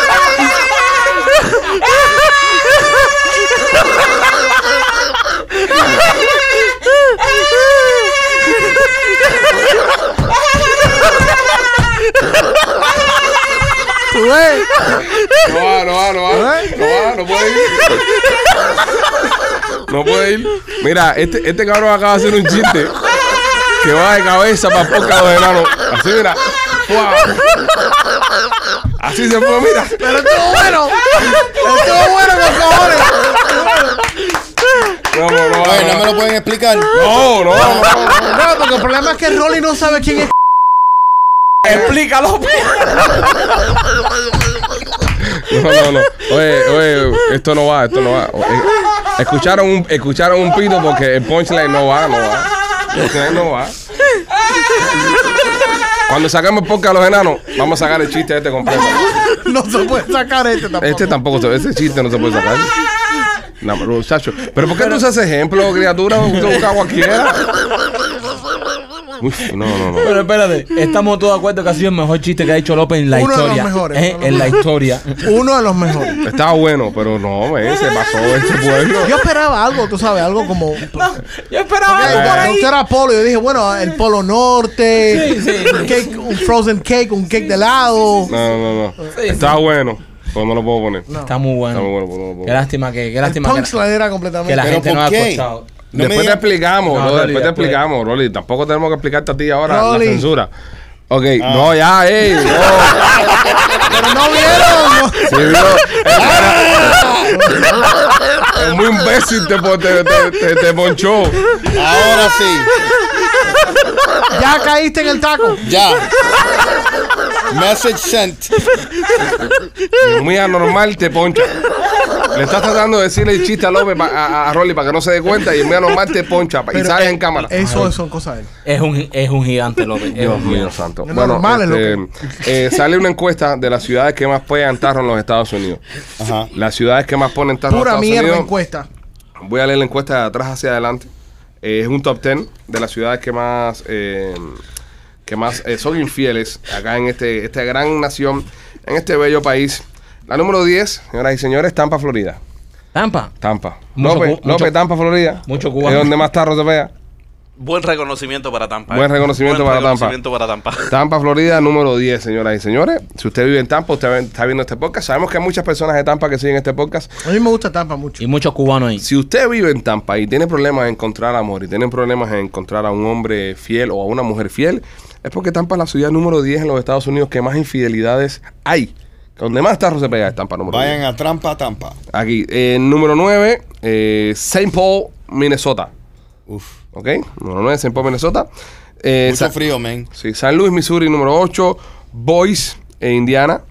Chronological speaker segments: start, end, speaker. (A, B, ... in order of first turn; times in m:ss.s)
0:14.1-0:14.7 A
0:15.4-0:18.0 B
0:16.3-0:16.7 A
0:19.9-0:22.9 B
0:23.8-0:27.4 B
0:29.0-0:30.3 B
0:30.0-0:33.9 A
0:35.1-0:36.1 B
0:35.6-0:36.9 C
0:36.9-0:38.4 B
0:38.1-0:40.3 A
0:41.6-0:41.9 B
0:41.6-0:42.9 D
0:45.3-0:53.8 B
0:56.1-0:59.1 B
0:59.4-1:01.2 A
1:00.8-1:02.7 B
1:03.6-1:07.5 B
1:09.2-1:10.2 B
1:10.0-1:15.2 D
1:13.1-1:14.6 A
1:15.2-1:16.2 A
1:16.2-1:19.2 B
1:19.0-1:21.1 A
1:20.9-1:22.7 D
1:21.9-1:28.3 A
1:22.0-1:22.6 B
1:25.1-1:26.4 D
1:28.3-1:31.1 B
1:29.1-1:29.6 D
1:31.2-1:31.9 D
1:31.7-1:32.6 B
1:32.4-1:33.7 D
1:33.2-1:34.7 A
1:34.4-1:35.7 D
1:34.6-1:36.5 C
1:35.9-1:40.5 B
1:36.9-1:37.8 D
1:39.7-1:40.3 A
1:41.1-1:43.2 B
1:41.4-1:41.8 C
1:43.9-1:45.6 A
1:45.2-1:47.0 B
1:46.1-1:47.5 C
1:46.2-1:46.8 A
1:47.3-1:47.7 A
1:48.5-1:51.4 B
1:51.7-1:52.7 C
1:54.3-1:55.6 A
1:55.6-1:56.1 C
1:57.5-1:58.7 C
2:00.0-2:01.6 B
2:02.3-2:07.5 B
2:06.7-2:08.5 A
2:07.5-2:08.0 D
2:08.6-2:10.7 D
2:10.1-2:15.8 B
2:11.0-2:12.0 A
2:16.2-2:16.5 C
2:16.5-2:18.5 B
2:17.7-2:18.9 A
2:19.4-2:21.1 B
2:21.6-2:24.6 B
2:25.3-2:32.4 B
2:32.9-2:33.3 D
2:33.4-2:36.9 B
2:34.0-2:34.8 D
2:35.5-2:36.1 D
2:37.6-2:40.9 E
2:38.9-2:40.2 B
2:40.9-2:47.1 B
2:47.2-2:48.2 A
2:48.2-2:49.0 D
2:49.0-3:01.0 B
3:00.7-3:02.0 C
3:02.1-3:05.9 B
3:06.5-3:06.8 C
3:06.9-3:08.5 B
3:09.0-3:09.5 B
3:09.2-3:10.1 C
3:10.2-3:13.6 B